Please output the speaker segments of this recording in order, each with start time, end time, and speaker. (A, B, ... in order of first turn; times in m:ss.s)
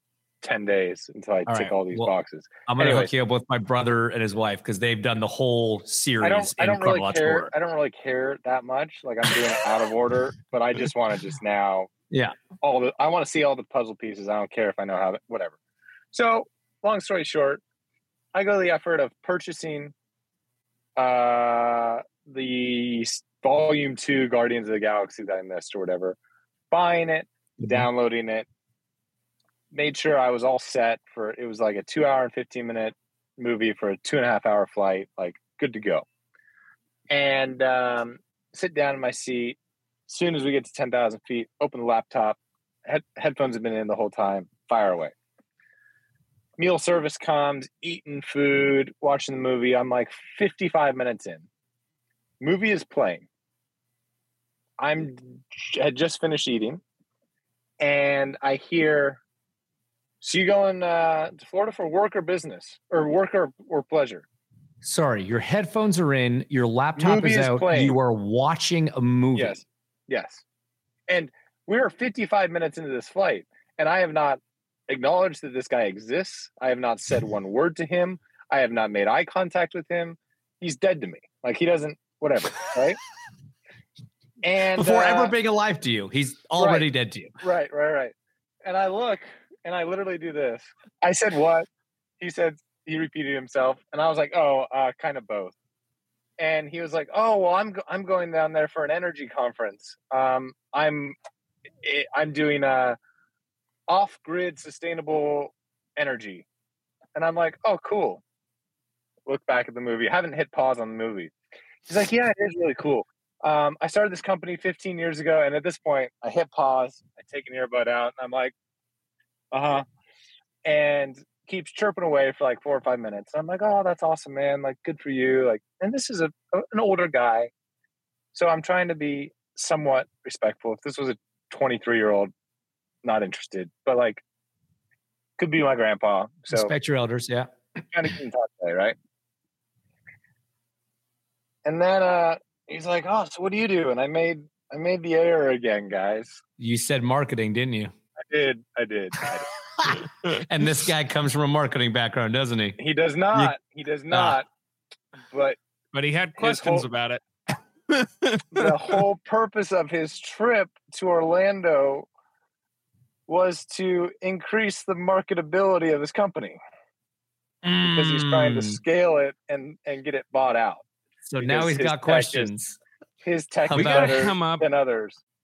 0:00.4-0:03.1 A
0:01.5-0:02.1 B
0:02.6-0:07.5 B
0:06.2-0:11.9 A
0:12.1-0:12.4 B
0:12.6-0:15.6 A
0:16.1-0:17.6 A
0:18.3-0:19.9 A
0:21.0-0:26.2 A
0:26.7-0:28.4 A
0:27.6-0:27.9 B
0:29.7-0:36.0 A
0:37.1-0:39.6 A
0:40.1-0:45.1 A
0:46.6-0:51.4 A
0:52.4-0:53.2 A
0:54.8-0:56.8 A
0:57.8-0:59.2 A
1:00.2-1:04.2 A
1:04.8-1:09.6 B
1:07.0-1:08.0 A
1:09.3-1:10.4 A
1:11.1-1:23.0 A
1:24.4-1:25.3 A
1:24.8-1:27.3 B
1:26.6-1:26.8 A
1:27.4-1:28.1 A
1:28.6-1:31.7 A
1:32.2-1:35.5 A
1:36.4-1:41.2 A
1:41.8-1:43.0 A
1:43.9-1:46.4 A
1:47.2-1:48.2 A
1:49.3-1:51.3 A
1:51.9-1:58.5 A
1:59.5-1:59.8 A
2:00.6-2:07.5 A
2:08.3-2:12.3 A
2:13.0-2:14.2 A
2:15.4-2:16.7 A
2:16.5-2:17.5 B
2:17.9-2:18.9 A
2:21.6-2:26.4 A
2:26.6-2:27.9 B
2:28.3-2:30.0 A
2:29.8-2:32.8 B
2:32.8-2:34.5 A
2:34.1-2:34.4 B
2:35.3-2:35.6 A
2:35.9-2:37.2 C
2:36.4-2:36.9 A
2:37.9-2:39.0 C
2:38.5-2:42.1 A
2:43.3-2:46.6 A
2:47.6-2:48.8 B
2:47.9-2:50.8 A
2:51.3-2:52.8 B
2:51.4-2:52.5 A
2:53.2-2:55.2 A
2:53.6-2:54.3 B
2:53.7-2:54.7 C